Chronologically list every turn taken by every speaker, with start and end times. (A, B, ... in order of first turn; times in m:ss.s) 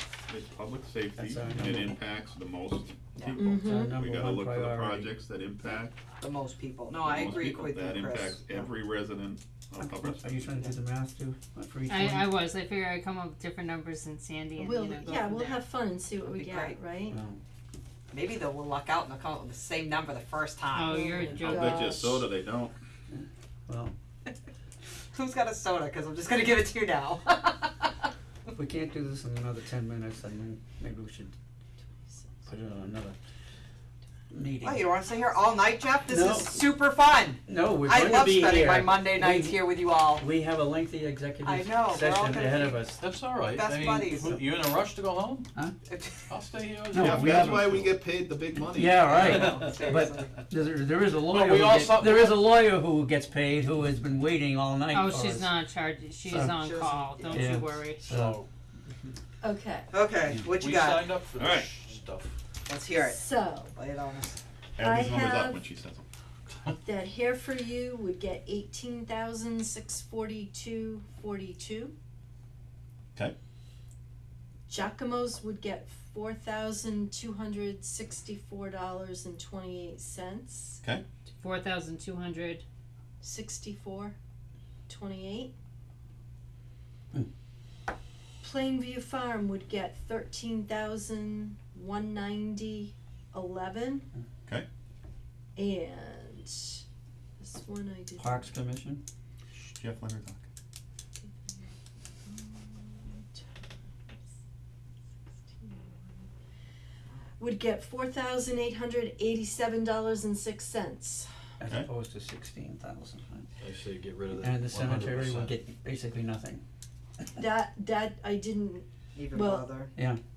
0:00.3-0:06.0 A
0:01.2-0:02.0 B
0:03.2-0:03.5 C
0:03.4-0:04.0 D
0:03.6-0:05.1 B
0:06.2-0:08.7 C
0:07.0-0:10.7 A
0:09.8-0:12.4 B
0:11.9-0:15.6 E
0:14.6-0:17.2 D
0:16.2-0:16.8 C
0:17.1-0:17.4 B
0:18.1-0:21.0 C
0:20.7-0:22.0 E
0:20.9-0:22.3 D
0:21.2-0:22.7 A
0:23.1-0:23.9 B
0:25.1-0:27.9 C
0:28.5-0:31.4 B
0:32.0-0:32.4 D
0:32.4-0:33.2 B
0:34.3-0:34.8 B
0:34.6-0:40.2 C
0:36.1-0:36.7 B
0:37.4-0:43.0 B
0:41.4-0:42.9 C
0:43.0-0:45.5 F
0:43.5-0:44.4 C
0:45.9-0:46.3 C
0:46.3-0:47.9 F
0:46.9-0:47.8 B
0:46.9-0:49.1 A
0:48.7-0:55.6 B
0:49.1-0:50.4 C
0:49.3-0:49.7 F
0:51.2-0:52.5 F
0:54.9-0:58.0 E
0:56.2-0:56.6 B
0:56.5-0:57.6 C
0:57.3-0:58.4 B
0:58.0-0:58.5 F
0:59.4-0:59.9 D
0:59.9-1:01.2 C
1:00.4-1:02.4 F
1:01.4-1:01.7 A
1:02.7-1:04.4 C
1:03.0-1:03.7 D
1:04.8-1:06.0 A
1:04.8-1:05.6 D
1:06.8-1:11.9 D
1:14.7-1:20.8 D
1:21.4-1:22.6 E
1:23.2-1:24.1 D
1:24.9-1:25.5 D
1:28.4-1:34.0 D
1:35.6-1:36.8 D
1:37.4-1:38.5 D
1:38.2-1:39.0 B
1:39.5-1:40.4 A
1:42.2-1:43.5 D
1:45.6-1:46.2 D
1:47.4-1:51.3 D
1:51.6-1:53.5 B
1:53.6-1:55.5 F
1:54.4-1:56.6 B
1:57.4-1:59.7 D
1:59.1-1:59.9 C
1:59.9-2:00.2 B